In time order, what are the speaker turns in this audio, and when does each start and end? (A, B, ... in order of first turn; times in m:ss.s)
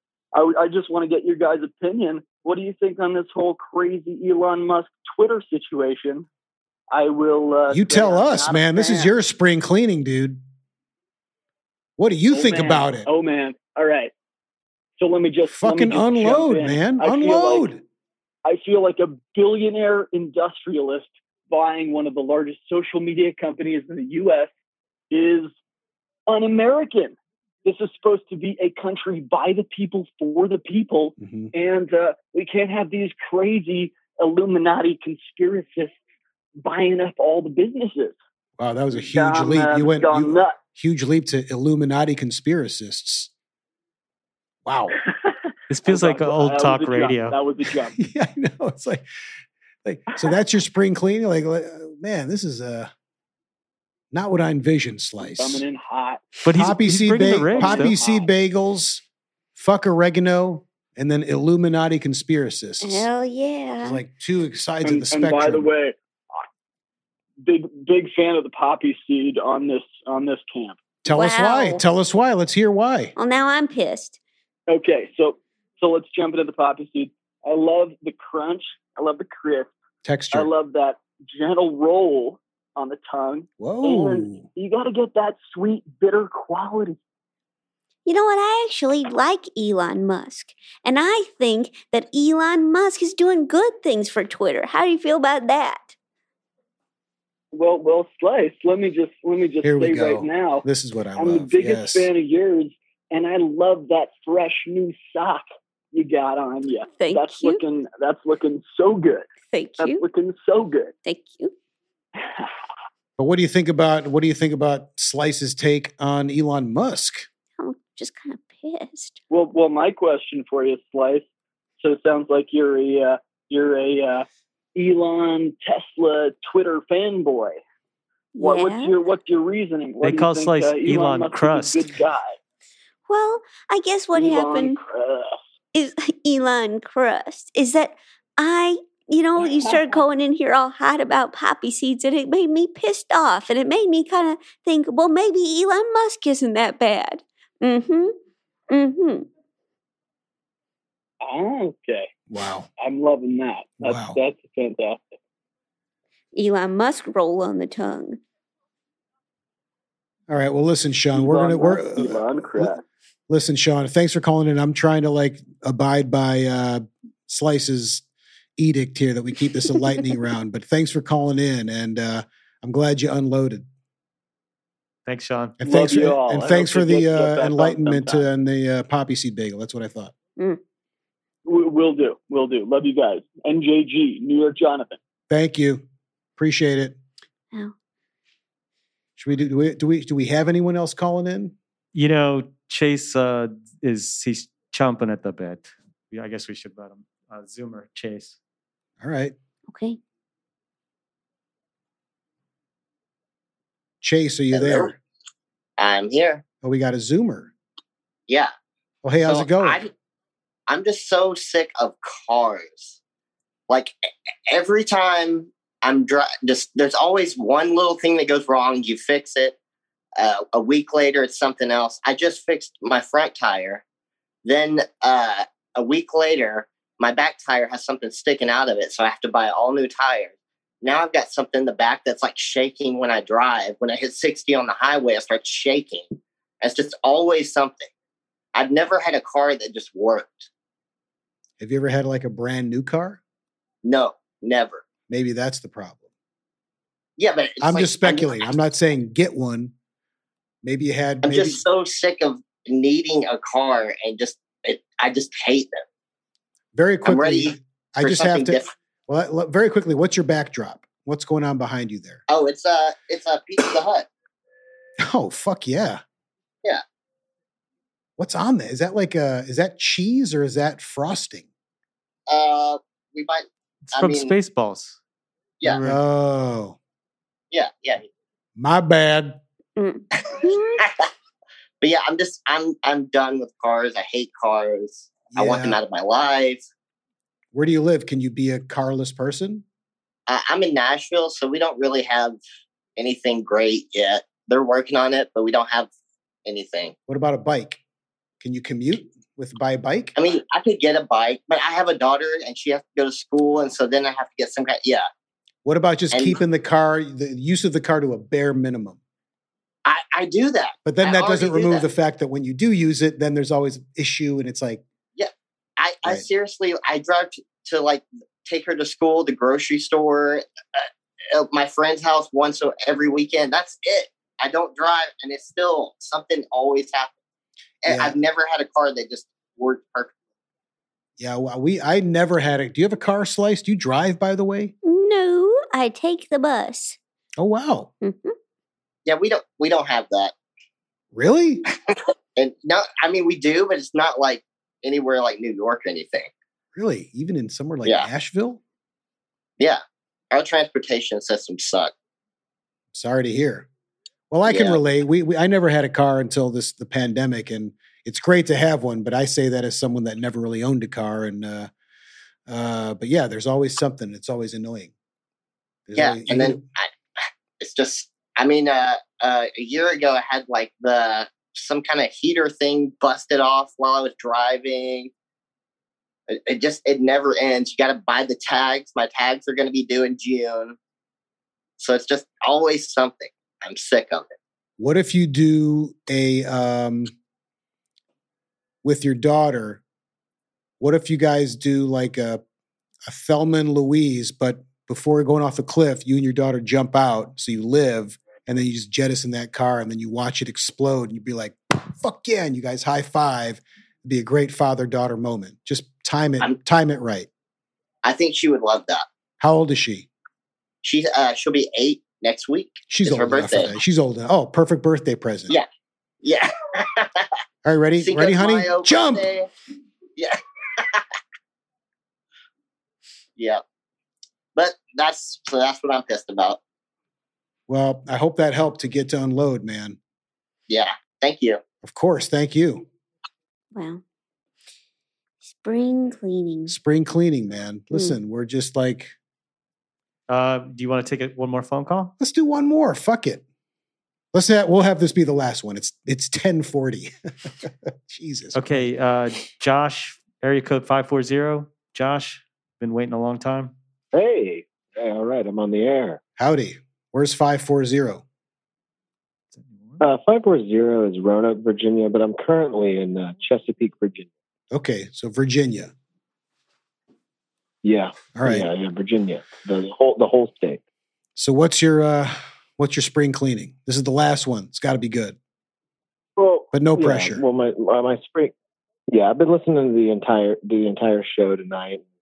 0:00.3-0:06.3 A
0:06.9-0:09.1 A
0:07.7-0:10.4 B
0:12.0-0:13.1 B
0:12.3-0:14.1 A
0:15.0-0:17.7 A
0:15.5-0:17.8 B
0:18.4-0:24.5 A
0:25.1-0:25.5 A
0:26.3-0:36.0 A
0:31.2-0:31.5 B
0:36.6-0:38.2 A
0:38.6-0:43.3 B
0:38.9-0:40.5 A
0:44.6-0:45.0 B
0:45.7-0:47.4 C
0:45.9-0:48.0 A
0:47.9-0:49.0 B
0:49.8-0:52.9 B
0:54.1-0:55.6 B
0:55.2-0:56.3 A
0:56.4-0:57.9 C
0:56.5-0:59.0 B
0:57.5-0:58.3 A
0:59.6-1:03.1 B
1:02.8-1:04.0 D
1:03.8-1:05.7 B
1:04.8-1:06.4 A
1:07.4-1:10.8 A
1:11.0-1:13.1 B
1:11.1-1:11.8 D
1:13.2-1:14.2 D
1:14.7-1:19.7 A
1:20.0-1:20.5 B
1:20.3-1:27.0 A
1:23.6-1:24.4 B
1:28.0-1:35.9 D
1:37.5-1:40.6 A
1:39.6-1:42.1 B
1:41.2-1:49.3 A
1:47.0-1:47.6 D
1:49.5-1:50.0 D
1:49.8-1:50.9 A
1:51.0-1:51.5 D
1:53.2-1:57.3 B
1:57.6-1:59.2 D
1:59.3-2:01.2 A
2:01.8-2:07.6 A
2:08.3-2:08.9 D
2:08.4-2:12.4 A
2:10.0-2:11.9 C
2:13.1-2:14.8 D
2:14.1-2:15.4 A
2:15.7-2:28.1 D
2:19.4-2:20.0 A
2:28.7-2:29.3 D
2:31.2-2:32.1 A
2:32.3-2:32.7 B
2:32.8-2:35.1 A
2:33.8-2:34.2 B
2:36.3-2:38.2 D
2:40.3-2:42.7 B
2:41.1-2:42.8 A
2:43.3-2:48.0 B
2:48.6-2:53.7 B
2:55.0-2:55.6 C
2:55.6-3:00.1 B
2:55.6-2:58.2 A
3:01.4-3:05.0 A
3:05.3-3:05.8 B
3:06.4-3:07.0 B
3:09.2-3:11.5 B
3:11.9-3:18.4 C
3:19.0-3:19.3 B
3:19.7-3:20.0 D
3:24.0-3:25.0 B
3:24.5-3:24.9 E
3:25.8-3:26.4 E
3:26.6-3:27.5 B
3:29.0-3:29.8 B
3:29.2-3:29.9 E
3:30.7-3:33.0 E
3:33.7-3:33.9 E
3:34.5-3:39.6 E
3:40.2-3:43.8 E
3:44.4-3:57.9 E
3:58.5-4:00.5 E
4:01.6-4:03.2 B
4:03.8-4:04.8 E
4:05.1-4:06.0 B
4:07.2-4:08.5 E
4:07.6-4:09.7 B
4:10.6-4:11.6 B
4:11.2-4:15.8 E
4:16.7-4:22.2 B
4:17.0-4:18.7 E
4:22.3-4:24.1 E
4:25.0-4:26.0 B
4:28.2-4:31.4 B
4:32.3-4:34.3 E
4:33.8-4:35.0 C
4:35.6-4:36.0 C
4:35.8-4:36.8 B
4:37.5-4:38.0 E
4:38.6-4:39.4 B
4:39.8-4:40.8 D
4:40.8-4:41.0 E
4:41.8-4:46.6 E
4:45.3-4:45.8 B
4:47.5-4:49.6 B
4:50.3-4:52.4 E
4:53.0-4:55.9 E
4:56.4-4:56.9 E
4:57.1-4:57.8 B
4:58.4-5:00.1 B
5:00.2-5:05.0 E
5:05.6-5:09.0 B
5:06.1-5:06.4 E
5:09.8-5:11.8 E
5:10.8-5:14.8 B
5:15.2-5:27.2 E
5:27.8-5:30.1 E
5:27.8-5:28.2 B
5:31.2-5:34.7 B
5:34.8-5:37.0 D
5:37.4-5:37.9 B
5:38.0-5:38.3 D
5:39.0-5:40.3 E
5:41.1-5:41.6 B
5:42.4-5:46.3 E
5:46.7-5:48.6 B
5:50.3-5:51.9 E
5:52.9-5:53.6 B
5:54.3-6:01.7 B
5:54.4-5:54.8 E
6:02.5-6:04.9 B
6:05.9-6:06.6 B
6:05.9-6:06.9 E
6:07.6-6:15.1 E
6:16.3-6:20.8 E
6:21.8-6:24.3 E
6:24.8-6:27.1 B
6:28.8-6:29.8 B
6:30.8-6:32.4 B
6:33.0-6:47.3 B
6:48.0-6:49.0 E
6:49.4-6:50.1 B
6:50.8-6:53.7 E
6:52.9-6:55.5 B
6:56.2-6:57.3 E
6:57.6-6:59.3 B
6:58.0-6:59.5 E
7:00.2-7:01.0 E
7:03.4-7:03.6 E
7:04.6-7:06.6 E
7:07.7-7:10.0 B
7:10.7-7:11.6 E
7:11.8-7:12.8 B
7:13.7-7:14.0 D
7:15.4-7:16.7 D
7:16.7-7:19.1 B
7:20.3-7:22.1 C
7:22.2-7:23.4 B
7:24.3-7:27.1 B
7:28.1-7:28.8 B
7:28.5-7:33.7 C
7:34.1-7:36.2 F
7:36.4-7:38.2 B
7:39.5-7:40.0 C
7:40.0-7:44.3 F
7:44.7-7:45.9 B
7:47.8-7:50.8 F
7:48.3-7:48.7 B
7:51.4-7:55.4 B
7:56.4-7:58.5 F
7:56.7-7:57.4 B
7:59.1-8:02.0 F